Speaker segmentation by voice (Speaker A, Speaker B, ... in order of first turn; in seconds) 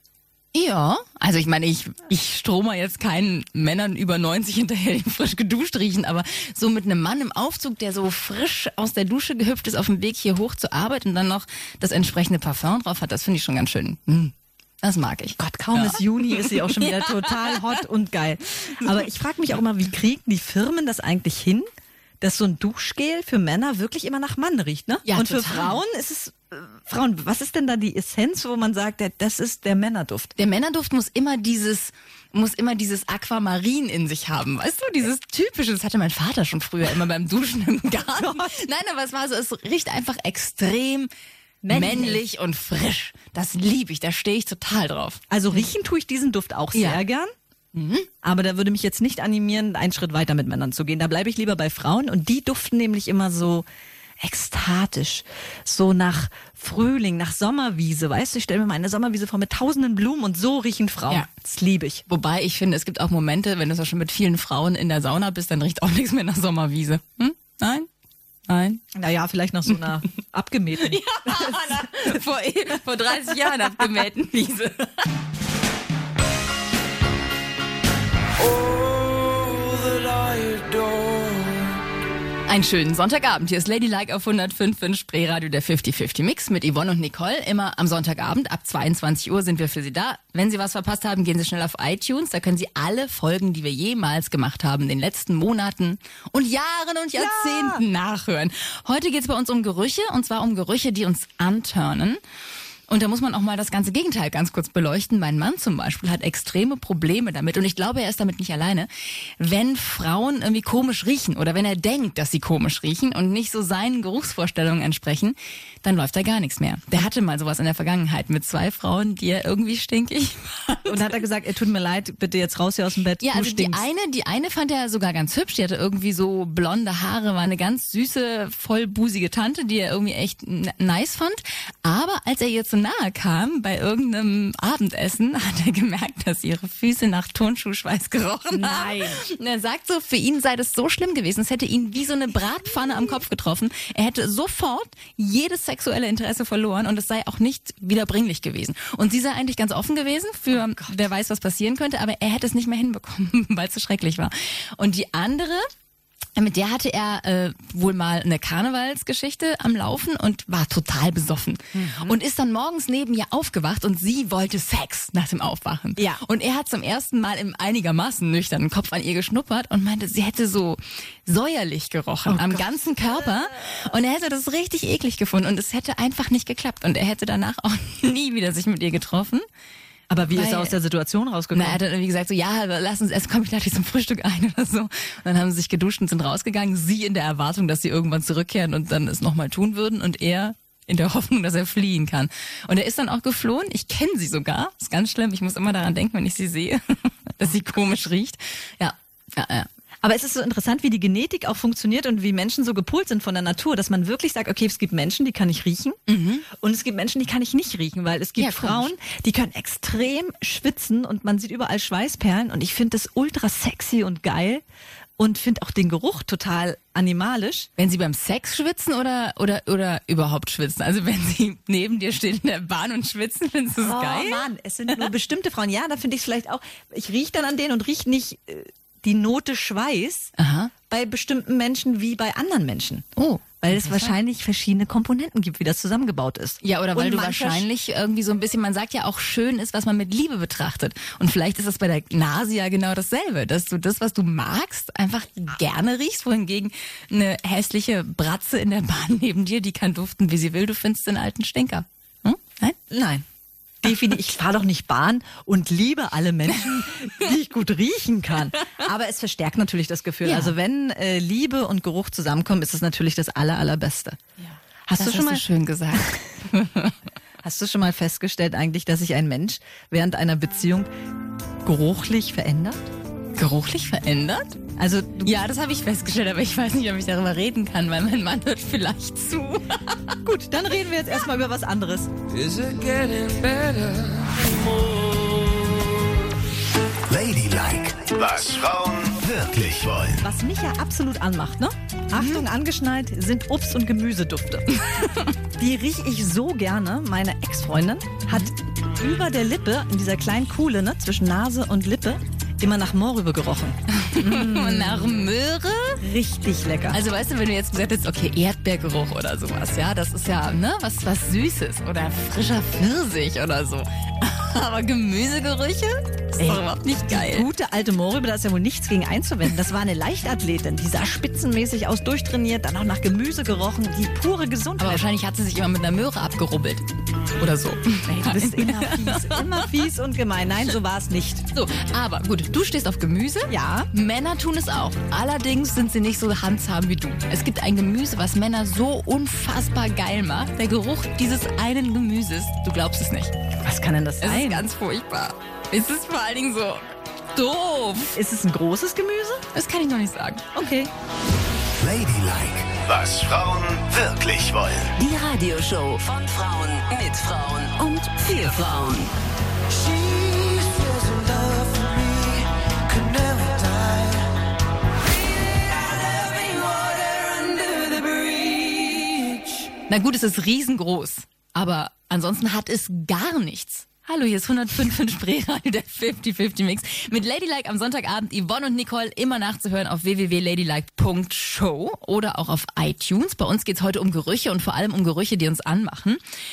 Speaker A: 0.5-17.8, 18.7-19.1, 25.1-25.8, 30.4-41.1, 41.7-45.2, 46.8-47.0, 47.7-48.1, 62.1-67.9, 68.5-68.8, 70.8-74.9, 82.5-102.2, 102.9-121.2, 123.2-155.7, 156.4-179.5, 180.3-180.8, 181.5-199.7, 206.1-206.5, 208.4-208.9, 217.8-225.0, 230.4-230.7, 233.2-234.2, 236.6-252.8, 260.2-260.5, 264.4-266.9, 273.4-274.6, 275.2-280.2, 292.1-292.5, 295.0-295.2, 303.9-306.0, 306.9-317.5, 324.8-326.8, 327.4-329.6, 331.5-343.3, 344.2-348.1, 349.5-350.5, 369.9-386.2
Speaker B: 15.4-21.7, 22.2-30.3, 38.2-38.6, 41.6-42.2, 45.3-47.3, 48.2-53.7, 54.2-62.0, 68.9-72.0, 97.2-97.8, 120.9-123.8, 138.5-139.2, 161.7-162.2, 166.0-166.2, 172.3-173.8, 180.1-181.8, 200.0-214.6, 215.2-217.7, 223.8-230.3, 230.9-233.1, 233.6-237.7, 252.9-253.2, 253.8-264.2, 264.9-265.4, 267.4-270.9, 271.6-272.8, 274.8-275.4, 280.2-282.1, 290.2-294.8, 295.6-305.3, 306.0-307.0, 316.4-325.1, 328.1-331.4, 333.5-333.9, 343.6-344.7, 348.1-349.4, 350.5-350.9
Speaker C: 78.4-81.7, 282.3-285.8, 359.7-364.3, 365.5-369.7
Speaker D: 287.1-290.2, 351.8-354.9
Speaker E: 355.0-359.1